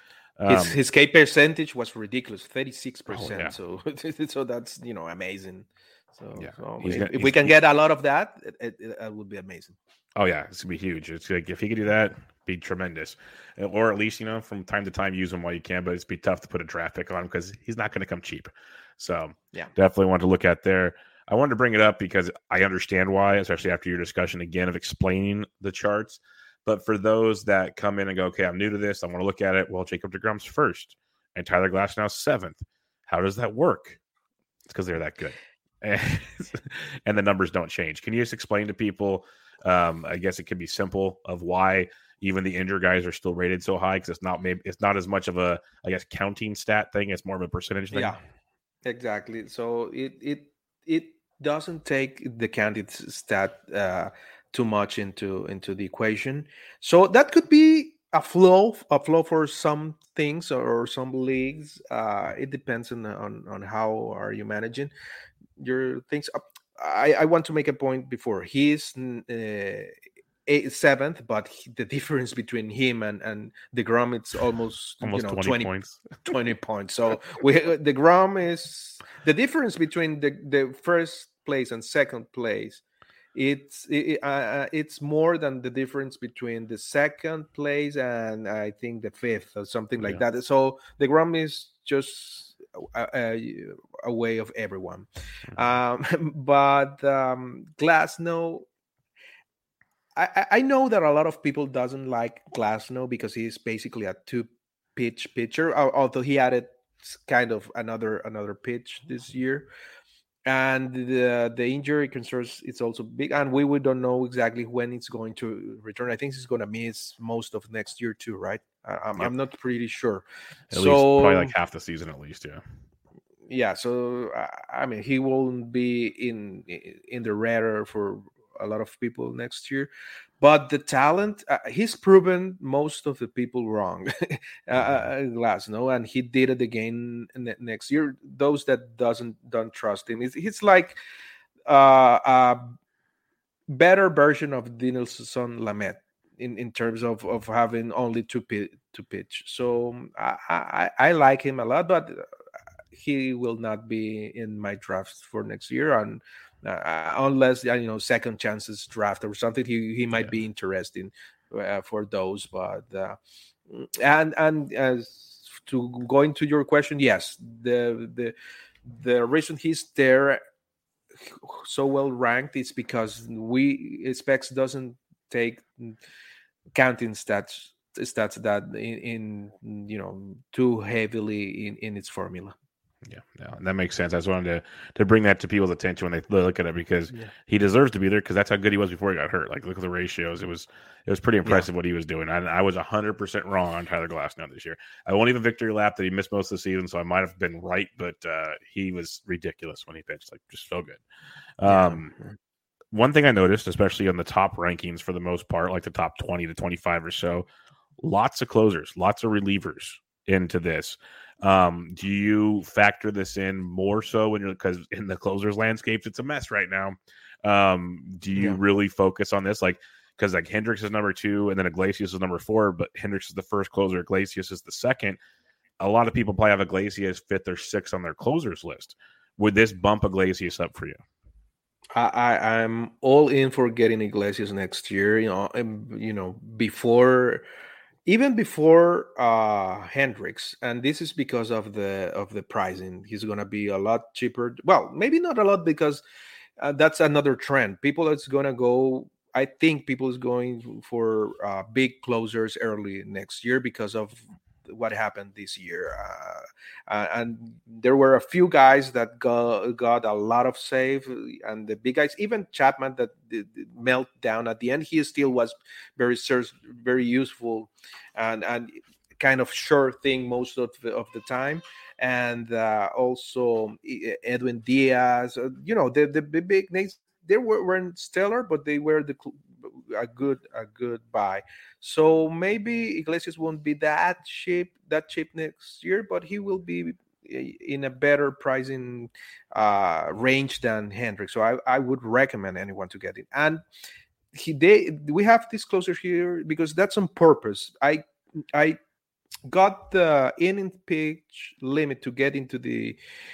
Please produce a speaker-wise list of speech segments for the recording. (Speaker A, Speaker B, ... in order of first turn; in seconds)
Speaker A: 0.4-0.8, 3.1-3.5, 6.3-7.6, 10.2-34.0, 34.6-48.1, 75.0-76.0, 120.7-122.6, 183.1-201.0, 201.6-202.1, 202.9-207.4, 208.0-225.2, 225.8-231.0
Speaker B: 0.5-9.8, 47.9-48.2, 48.8-64.9, 65.6-69.9, 70.5-82.8, 83.3-98.7, 100.2-109.7, 110.5-121.5, 123.5-129.9, 130.4-141.0, 141.7-142.7, 143.7-152.2, 152.9-163.2, 163.7-168.3, 168.8-170.4, 171.3-176.0, 176.7-182.6, 201.7-202.3, 218.3-218.6, 231.9-237.4, 238.1-246.0, 246.6-293.6, 294.3-298.8, 299.5-303.0